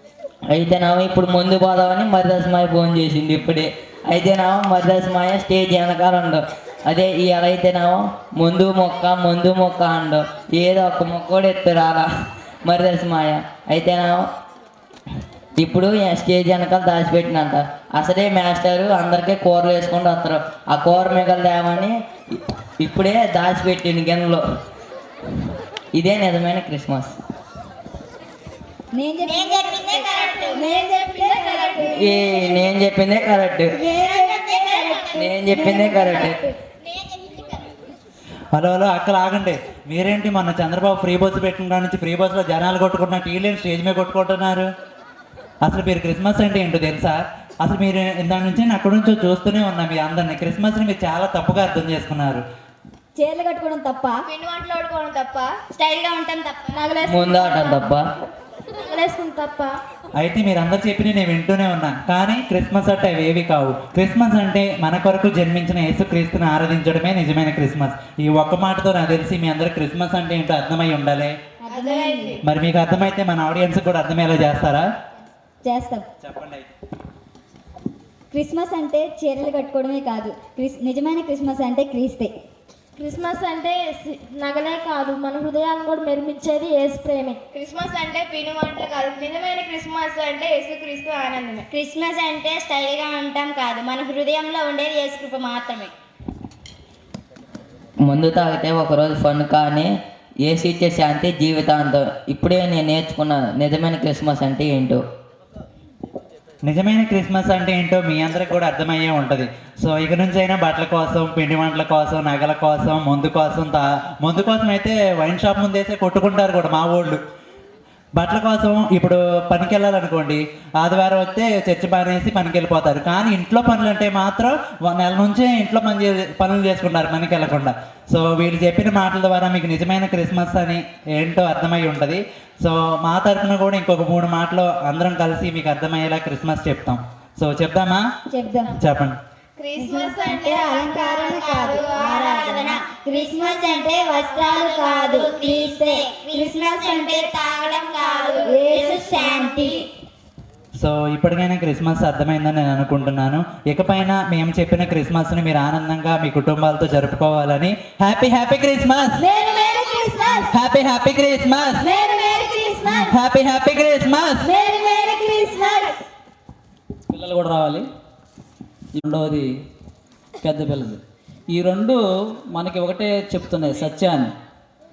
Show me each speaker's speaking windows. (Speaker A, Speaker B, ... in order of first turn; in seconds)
Speaker A: 0.5-12.1, 12.7-14.2, 15.6-21.9, 22.8-24.4, 26.0-27.1, 31.7-33.9, 35.2-36.4, 57.0-58.0, 98.0-99.9, 100.5-105.0
Speaker B: 28.9-32.4, 33.7-36.4, 53.2-54.2, 71.7-72.4, 75.7-76.0, 78.3-82.3, 138.3-138.7, 139.8-147.2, 148.4-149.8, 159.2-160.4, 161.8-163.1, 164.4-165.9
Speaker C: 29.2-30.5, 34.0-35.2, 55.7-56.8, 91.7-95.9, 142.0-149.8
Speaker D: 30.6-31.3, 54.3-55.5, 71.7-72.4, 87.5-91.7, 139.6-142.7, 148.0-148.5
Speaker E: 38.5-44.7, 45.6-52.4, 60.2-71.3, 72.4-74.9, 76.2-76.7, 106.7-117.2, 118.2-138.0, 138.8-139.2, 150.8-159.2, 160.4-161.9, 162.8-164.4
Speaker F: 56.8-57.8, 58.9-59.8, 83.0-87.4
Speaker G: 167.1-167.8, 169.0-169.5, 170.4-171.0, 171.5-172.0, 172.5-174.3